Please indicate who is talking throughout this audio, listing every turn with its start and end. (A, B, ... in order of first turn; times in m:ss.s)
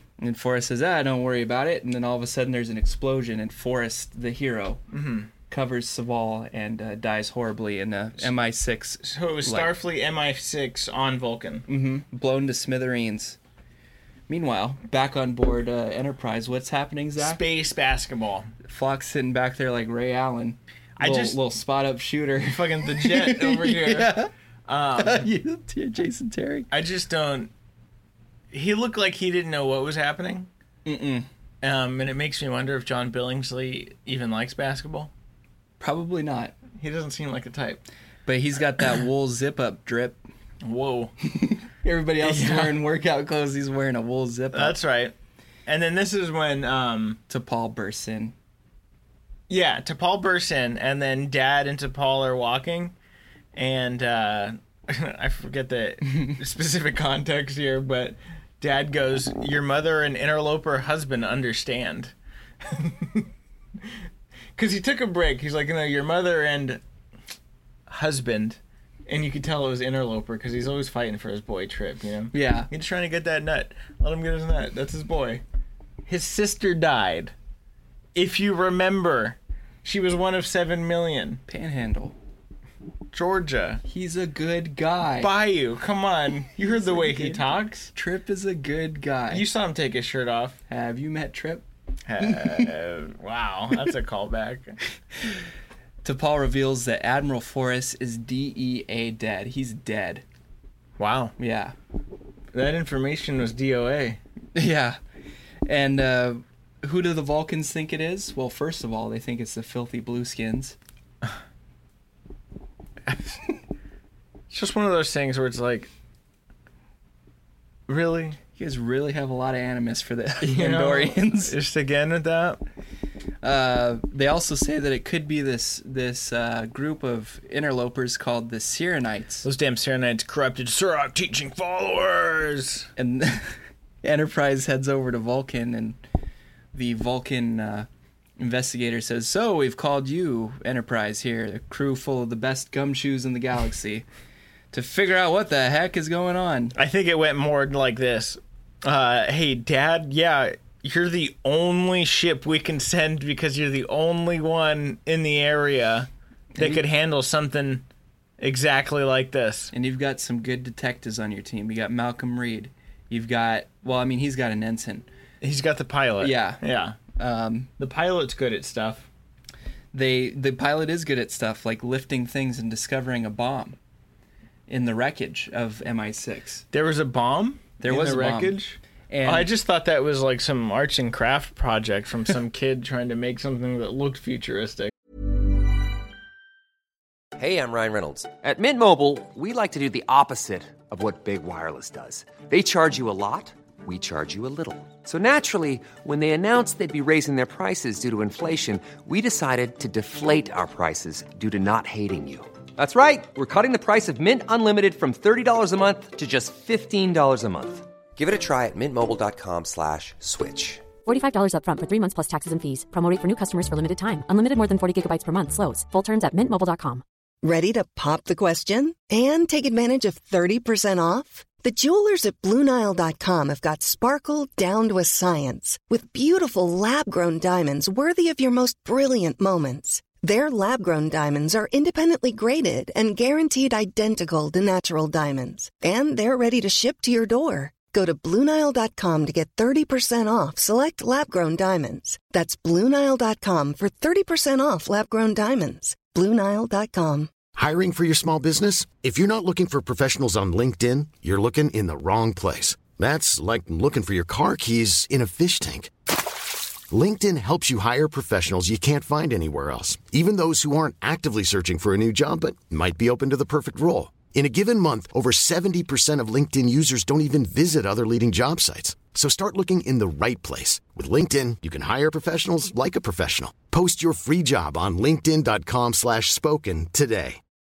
0:00.2-0:04.8 A
0:04.9-0:05.3 B
0:05.5-0:09.7 A
0:09.0-0:11.6 B
0:11.7-0:13.4 A
0:14.3-0:17.4 A
0:17.2-0:18.5 B
0:18.6-0:24.3 A
0:21.0-0:21.4 B
0:22.4-0:25.3 B
0:25.0-0:26.7 A
0:26.7-0:27.5 B
0:28.5-0:30.5 B
0:30.8-0:31.3 A
0:31.6-0:35.1 B
0:35.8-0:36.6 A
0:36.8-0:37.8 B
0:38.2-0:40.2 A
0:40.6-0:41.1 B
0:41.4-0:44.8 A
0:42.2-0:42.8 B
0:44.5-0:45.1 B
0:45.6-0:47.2 B
0:47.3-0:48.3 A
0:49.5-0:52.9 B
0:53.5-1:02.1 B
0:56.1-0:56.4 A
1:02.6-1:03.3 B
1:04.6-1:06.8 B
1:07.9-1:15.4 B
1:12.3-1:12.7 A
1:16.0-1:17.3 B
1:18.1-1:21.4 B
1:21.5-1:22.2 A
1:23.1-1:23.8 B
1:23.8-1:25.3 A
1:25.2-1:27.9 B
1:26.6-1:29.4 A
1:29.3-1:30.6 B
1:30.7-1:31.6 A
1:32.1-1:34.8 B
1:32.2-1:32.7 A
1:36.0-1:40.2 A
1:41.0-1:41.3 B
1:41.4-1:41.7 A
1:42.5-1:44.2 B
1:44.5-1:45.0 A
1:45.6-1:50.8 A
1:53.1-1:53.4 B
1:54.5-1:55.9 B
1:57.9-1:58.4 B
1:58.6-2:01.5 A
2:00.4-2:02.6 B
2:03.4-2:09.4 A
2:09.4-2:12.9 B
2:13.0-2:16.0 A
2:16.7-2:17.9 A
2:18.4-2:24.0 A
2:24.7-2:26.7 A
2:26.8-2:37.8 B
2:36.5-2:36.8 A
2:38.4-2:39.7 B
2:39.7-2:45.0 A
2:45.4-2:47.0 B
2:46.2-2:46.6 A
2:47.2-2:47.7 A
2:47.8-2:49.1 B
2:49.9-2:53.8 A
2:54.7-2:56.6 A
2:56.7-3:04.9 B
2:57.8-2:58.6 A
2:59.1-2:59.5 A
3:07.4-3:30.9 C
3:31.0-3:37.0 D
3:37.4-4:07.3 E
4:07.5-4:15.9 F
4:16.9-4:37.4 F